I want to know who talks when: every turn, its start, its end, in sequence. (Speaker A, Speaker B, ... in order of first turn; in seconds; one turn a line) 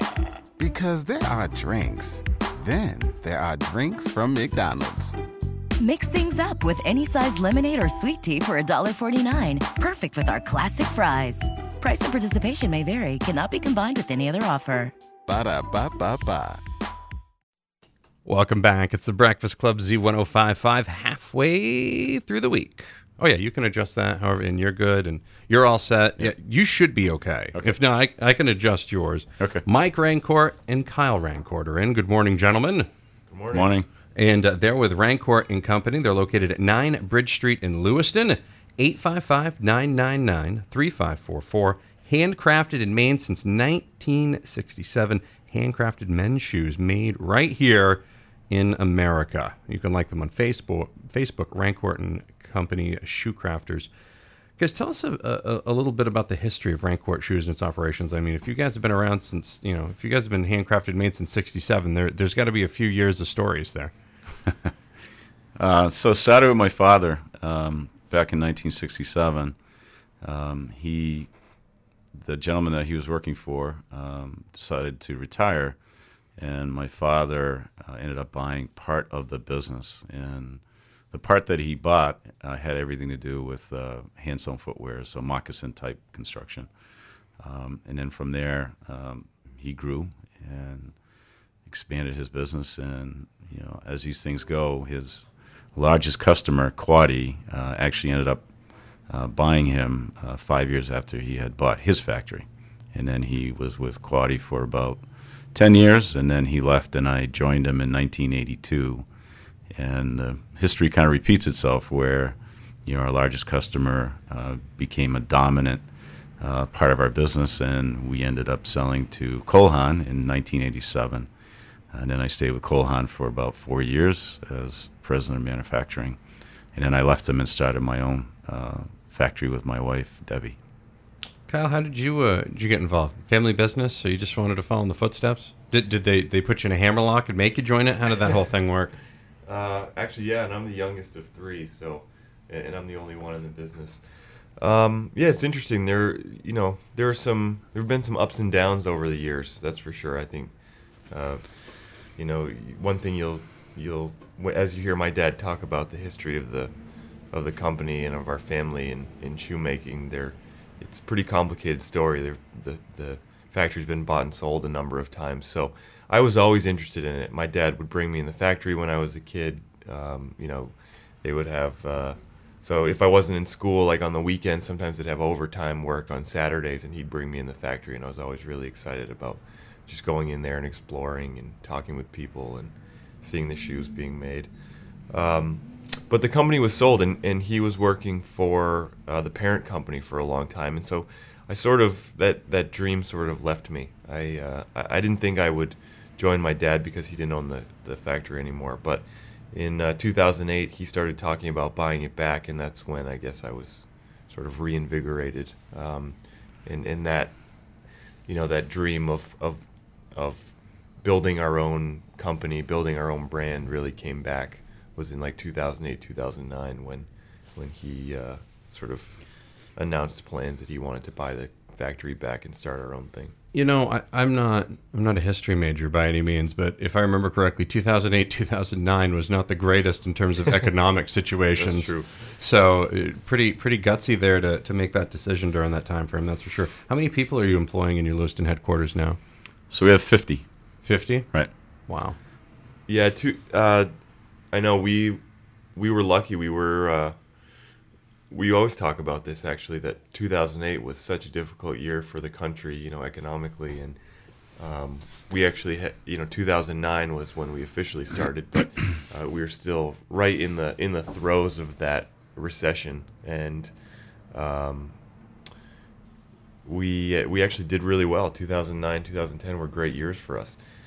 Speaker A: 0.6-5.1
Speaker B: 5.8-14.9
Speaker A: 15.3-16.6
Speaker C: 18.2-32.9
Speaker D: 29.4-29.6
Speaker E: 33.3-33.7
Speaker D: 33.5-33.9
Speaker C: 34.1-53.9
Speaker C: 54.6-63.9
Speaker D: 65.6-69.5
Speaker D: 70.2-71.3
Speaker D: 72.2-75.8
Speaker D: 76.4-80.6
Speaker D: 81.1-86.7
Speaker D: 87.4-90.9
Speaker D: 91.7-98.4
Speaker D: 99.1-105.0
Speaker D: 105.5-109.0
Speaker D: 109.7-115.8
Speaker D: 116.4-121.3
Speaker D: 121.9-126.2
Speaker D: 126.7-130.6
Speaker C: 131.5-138.9
Speaker E: 139.4-144.0
Speaker E: 144.6-150.6
Speaker E: 151.1-156.8
Speaker E: 157.3-184.5
Speaker E: 185.1-223.3
Speaker C: 223.5-239.2
Speaker E: 231.6-232.3
Speaker D: 239.7-240.5
Speaker C: 240.8-242.2
Speaker E: 242.9-243.9
Speaker E: 244.5-245.2
Speaker E: 245.7-247.2
Speaker E: 248.3-254.0
Speaker E: 254.6-263.8
Speaker E: 264.3-265.0
Speaker E: 266.6-270.6